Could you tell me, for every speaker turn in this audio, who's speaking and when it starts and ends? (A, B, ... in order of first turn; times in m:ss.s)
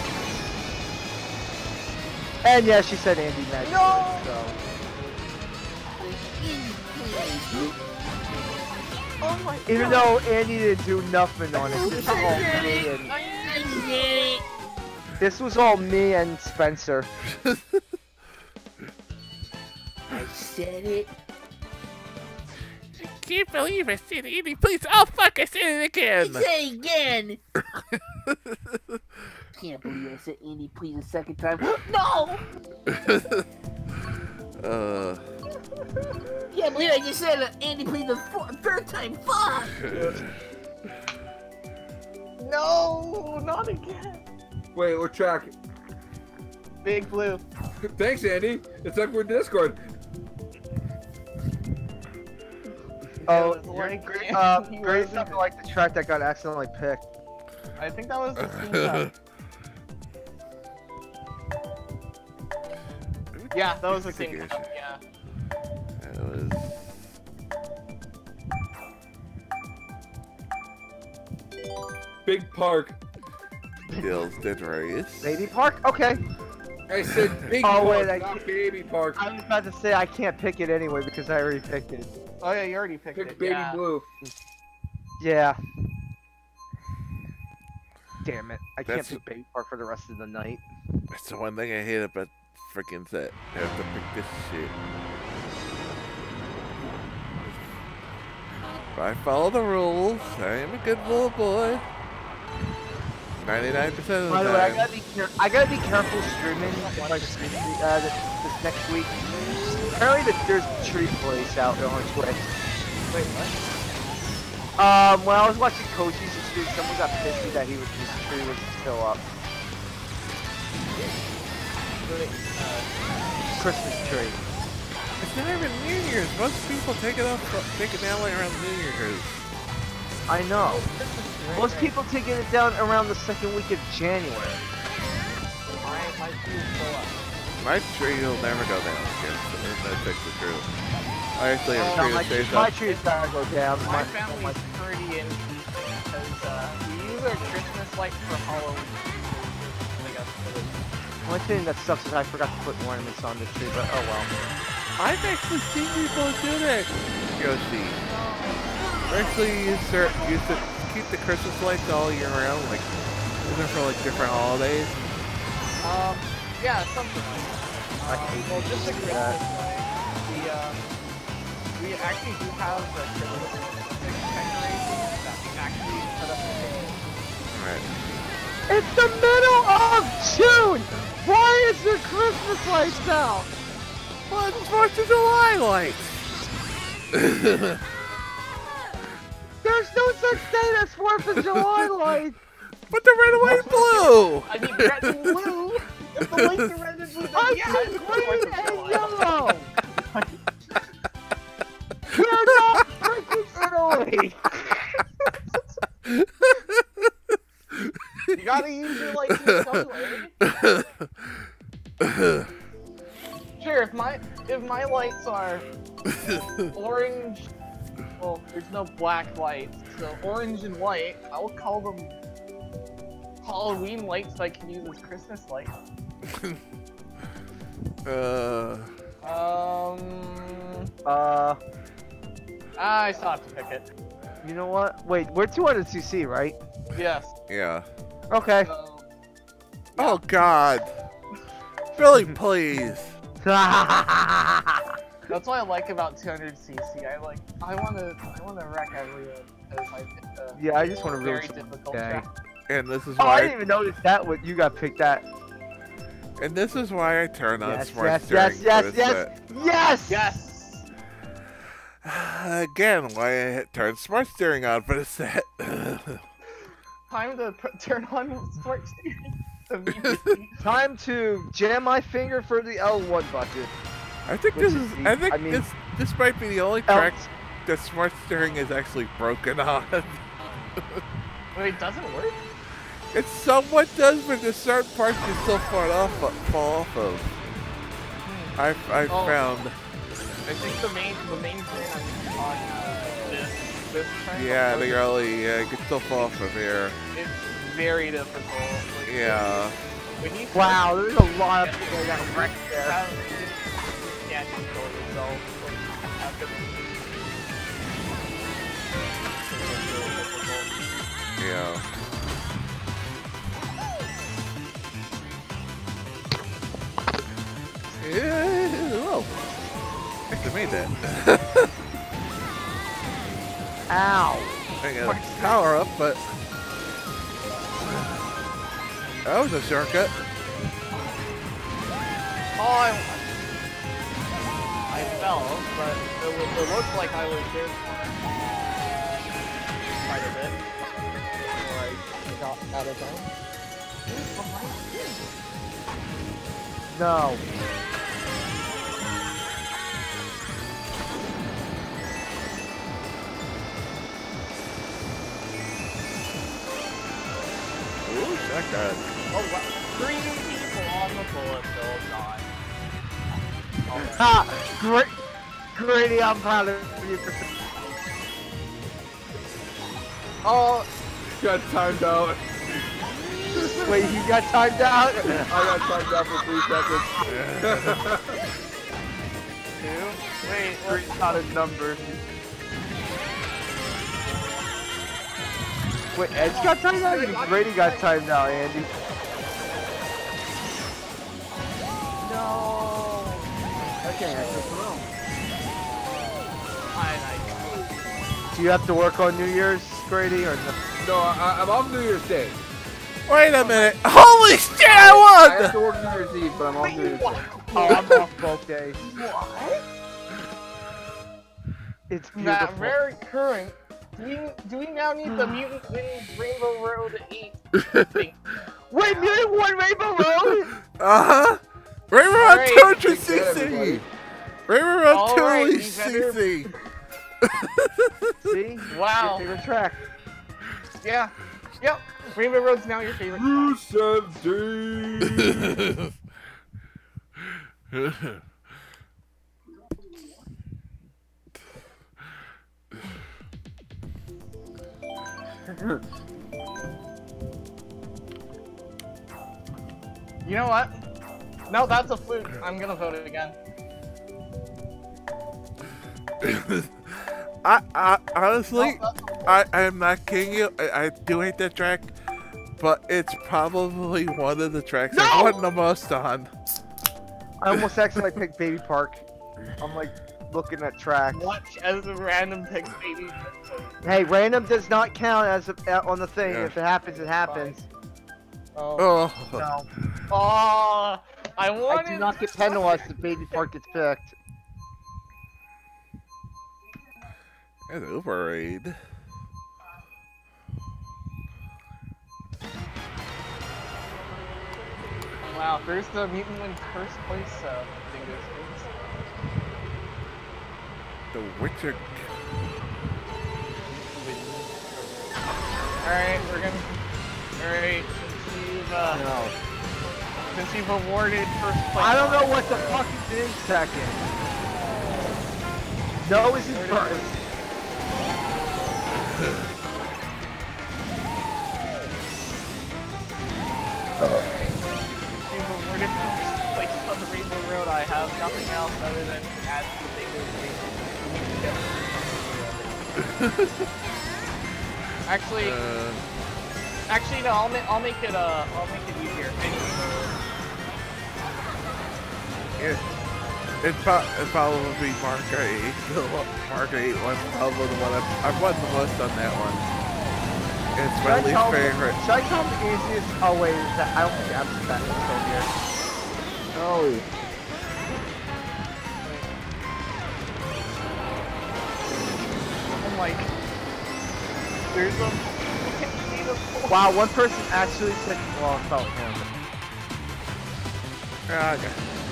0:02.4-0:04.5 A
0:03.6-0:04.5 B
0:06.0-0:07.8 C
0:09.2-0:10.1 B
0:09.7-0:13.1 A
0:11.6-0:14.4 C
0:12.0-0:13.9 B
0:15.2-0:17.1 A
0:17.4-0:17.7 D
0:20.1-0:21.1 C
0:23.0-0:26.4 D
0:26.2-0:27.4 C
0:28.5-0:28.8 D
0:29.6-0:32.4 C
0:32.9-0:33.4 D
0:34.6-0:35.2 D
0:36.0-0:36.3 B
0:36.5-0:40.1 C
0:39.7-0:40.0 D
0:39.8-0:40.2 E
0:42.4-0:44.2 B
0:44.7-0:45.5 E
0:46.8-0:47.4 B
0:47.9-0:49.8 E
0:53.2-0:57.0 A
0:53.2-0:55.4 B
0:57.8-0:59.1 B
0:58.4-0:59.1 D
1:03.3-1:04.7 D
1:03.5-1:05.0 B
1:06.0-1:07.0 D
1:12.2-1:13.0 E
1:13.9-1:15.5 D
1:15.2-1:16.2 A
1:16.9-1:19.2 E
1:17.6-1:18.4 A
1:19.2-1:22.1 A
1:22.4-1:23.8 B
1:23.1-1:24.1 E
1:25.2-1:25.6 A
1:28.2-1:30.6 A
1:28.8-1:29.2 D
1:31.1-1:34.7 D
1:38.9-1:41.8 D
1:43.4-1:44.9 D
1:44.3-1:49.2 A
1:46.6-1:47.7 B
1:49.9-1:52.5 A
1:53.1-1:53.6 B
1:54.8-1:59.2 A
2:02.0-2:02.9 B
2:03.5-2:04.4 A
2:04.0-2:04.4 B
2:05.2-2:09.4 D
2:10.3-2:10.8 A
2:10.6-2:12.0 B
2:11.5-2:14.6 A
2:15.7-2:17.2 B
2:17.6-2:20.7 D
2:21.4-2:22.8 D
2:21.7-2:23.1 B
2:21.8-2:24.6 A
2:23.8-2:30.8 B
2:31.2-2:34.3 A
2:35.0-2:38.0 D
2:38.0-2:38.7 B
2:39.0-2:42.9 D
2:43.4-2:45.0 D
2:45.8-2:51.0 B
2:48.1-2:49.4 A
2:51.8-2:57.0 B
2:57.5-2:57.9 D
2:58.7-3:03.5 A
3:04.3-3:06.2 D
3:07.1-3:07.8 D
3:09.6-3:12.4 A
3:11.4-3:11.8 D
3:12.9-3:15.3 D
3:13.4-3:20.4 B
3:17.3-3:19.7 A
3:22.1-3:25.0 A
3:26.0-3:27.1 D
3:28.3-3:30.4 B
3:30.4-3:30.8 D
3:32.0-3:32.5 D
3:33.6-3:35.6 B
3:36.2-3:36.7 D
3:36.7-3:37.5 B
3:38.2-3:42.2 B
3:43.4-3:45.7 B
3:48.0-3:48.9 D
3:49.2-3:50.9 B
3:51.0-3:51.6 A
3:52.8-3:53.9 B
3:54.4-3:56.6 A
3:56.9-3:57.3 B
3:57.5-3:57.8 D
3:58.3-3:58.7 A
3:58.6-3:59.0 B
4:00.0-4:00.9 D
4:00.0-4:00.2 B
4:01.9-4:03.1 D
4:03.4-4:04.8 A
4:05.3-4:12.3 B
4:10.5-4:12.2 A
4:12.7-4:13.7 D
4:13.2-4:15.2 A
4:16.4-4:19.3 D
4:17.6-4:20.4 A
4:20.1-4:20.9 B
4:22.0-4:26.2 D
4:27.1-4:30.6 B
4:30.6-4:33.7 A
4:34.2-4:40.2 D
4:34.5-4:35.6 A
4:36.9-4:37.3 A
4:41.5-4:42.4 B
4:43.1-4:47.4 D
4:48.2-4:48.6 B
4:48.6-4:49.7 D
4:49.1-4:49.4 B
4:50.4-4:55.2 B
4:54.3-4:57.0 D
4:57.1-4:59.6 B
4:59.0-4:59.8 D
5:00.2-5:00.9 B
5:00.5-5:03.0 A
5:01.6-5:06.9 B
5:09.4-5:10.8 B
5:11.4-5:11.8 D
5:18.0-5:19.3 D
5:20.3-5:21.7 D
5:23.9-5:24.6 A
5:24.8-5:26.2 D
5:25.0-5:25.6 B
5:29.2-5:30.2 D
5:32.5-5:33.2 B
5:34.9-5:38.2 B
5:40.0-5:43.3 B
5:44.0-5:45.2 B
5:46.9-5:47.4 A
5:58.0-5:59.0 D
5:59.3-6:02.5 B
6:03.8-6:04.3 B
6:04.2-6:05.1 A
6:05.7-6:07.5 A
6:10.4-6:10.9 B
6:11.4-6:12.5 E
6:13.5-6:14.0 E
6:13.8-6:15.7 A
6:15.2-6:18.4 E
6:17.2-6:18.0 D
6:19.8-6:21.5 B
6:20.8-6:22.2 A
6:26.1-6:28.9 A
6:26.3-6:28.1 B
6:32.2-6:33.5 B
6:34.0-6:35.0 E
6:34.3-6:34.6 B
6:36.9-6:38.0 B
6:38.5-6:40.8 A
6:41.0-6:42.6 E
6:43.3-6:45.8 D
6:43.6-6:44.0 B
6:44.8-6:45.2 B
6:45.4-6:47.5 E
6:46.8-6:48.3 B
6:47.7-6:49.1 A
6:49.0-6:49.8 B
6:52.1-6:53.0 A
6:52.3-6:59.5 B
6:55.2-6:55.5 A
6:58.9-7:00.7 A
7:01.0-7:04.0 D
7:02.3-7:03.0 B
7:02.9-7:04.0 E
7:04.7-7:06.7 D
7:05.1-7:06.6 B
7:08.4-7:10.0 A
7:08.9-7:09.5 B
7:11.0-7:13.8 B
7:13.3-7:15.8 E
7:15.6-7:16.0 D
7:17.9-7:18.4 D
7:30.4-7:31.0 B
7:31.7-7:33.6 B
7:36.4-7:42.1 D
7:38.7-7:39.6 B
7:42.8-7:46.5 D
7:45.1-7:45.6 A
7:47.6-7:49.2 A
7:49.8-7:51.5 A
7:51.3-7:54.0 B
7:54.0-7:57.8 A
7:56.4-7:56.7 D
7:57.1-7:57.8 B
7:58.7-7:59.2 B
7:59.0-7:59.7 D
7:59.5-7:59.9 A
8:00.3-8:03.6 B
8:01.9-8:04.3 A
8:07.9-8:09.0 D
8:15.5-8:19.3 B
8:21.3-8:22.3 D
8:23.8-8:25.4 B
8:26.0-8:27.0 B
8:27.6-8:29.2 B
8:29.0-8:29.5 A
8:30.5-8:33.1 B
8:32.0-8:34.2 A
8:36.2-8:37.4 A
8:36.5-8:38.8 B
8:45.4-8:53.2 B
8:55.2-8:55.8 B
8:55.6-8:56.2 D
8:57.1-9:00.4 B
9:03.8-9:09.9 D
9:11.0-9:12.2 D
9:11.2-9:15.7 A
9:16.7-9:17.2 E
9:19.2-9:19.5 B
9:23.0-9:23.5 B
9:24.9-9:27.0 B
9:26.9-9:29.5 A
9:31.5-9:32.0 D